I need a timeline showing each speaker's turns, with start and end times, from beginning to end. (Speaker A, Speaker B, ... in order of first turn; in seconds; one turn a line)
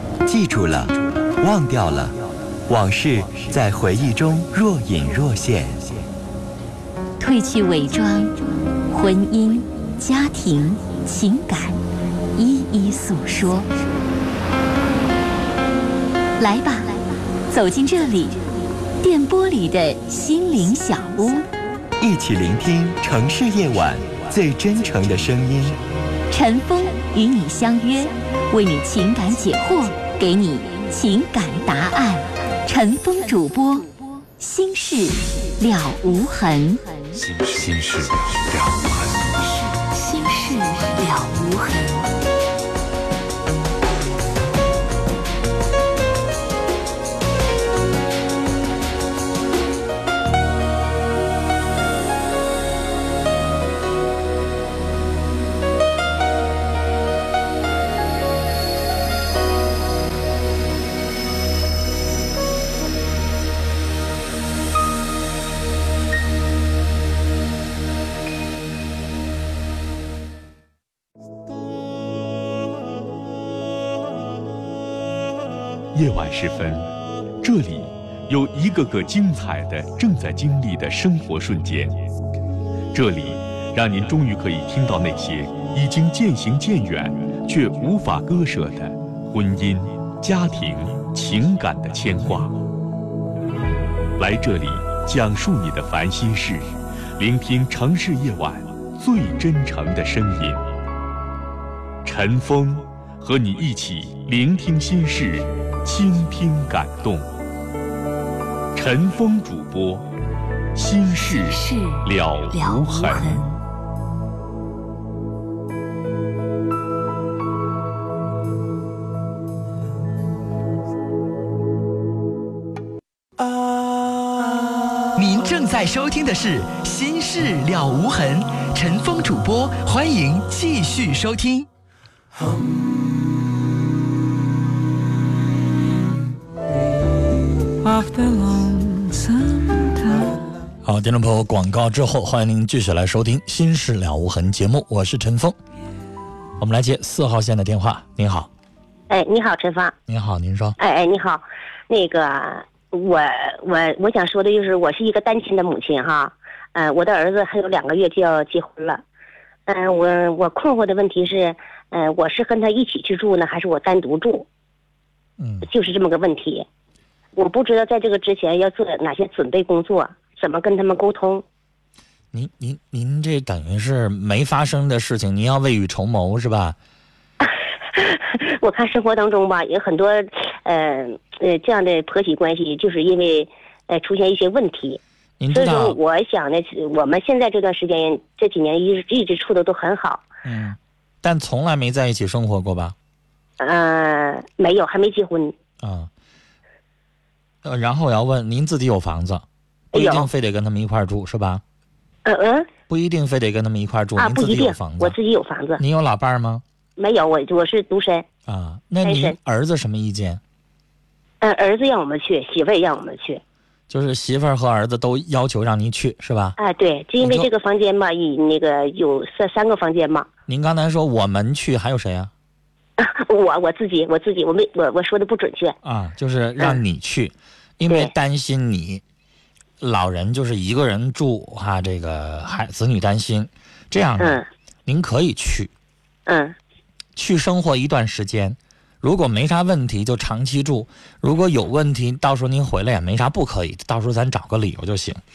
Speaker A: 0.2-6.0
Speaker B: 7.2-11.8
Speaker B: 12.3-13.7
Speaker B: 16.4-21.5
Speaker A: 22.0-25.8
Speaker B: 26.3-42.1
Speaker C: 75.9-76.9
Speaker C: 77.4-82.0
Speaker C: 82.9-92.5
Speaker C: 94.2-100.6
Speaker C: 102.0-107.3
Speaker C: 108.7-110.0
Speaker C: 110.7-113.5
Speaker B: 111.5-113.6
Speaker D: 125.1-131.7
Speaker E: 137.8-140.4
Speaker F: 140.8-145.6
Speaker F: 146.6-148.5
Speaker G: 149.1-149.9
Speaker F: 150.1-150.8
Speaker G: 150.8-159.0
Speaker G: 159.7-164.5
Speaker F: 165.4-165.7
Speaker G: 165.6-166.7
Speaker G: 167.3-171.4
Speaker F: 172.3-176.8
Speaker G: 177.4-190.2
Speaker F: 185.4-186.0
Speaker F: 190.4-192.9
Speaker G: 193.6-195.5
Speaker F: 195.8-196.1
Speaker F: 197.6-201.6
Speaker G: 199.9-200.3
Speaker G: 202.2-202.7
Speaker F: 202.9-205.1
Speaker G: 204.2-205.8
Speaker F: 205.8-206.6
Speaker G: 207.0-208.2
Speaker F: 208.5-210.4
Speaker G: 209.0-209.3
Speaker G: 211.4-213.4
Speaker F: 213.9-216.6
Speaker G: 216.6-220.3
Speaker F: 217.2-217.5
Speaker F: 220.5-222.3
Speaker G: 223.0-225.8
Speaker F: 225.8-229.0
Speaker F: 229.8-235.7
Speaker G: 234.2-234.5
Speaker G: 236.3-236.5
Speaker F: 237.2-245.2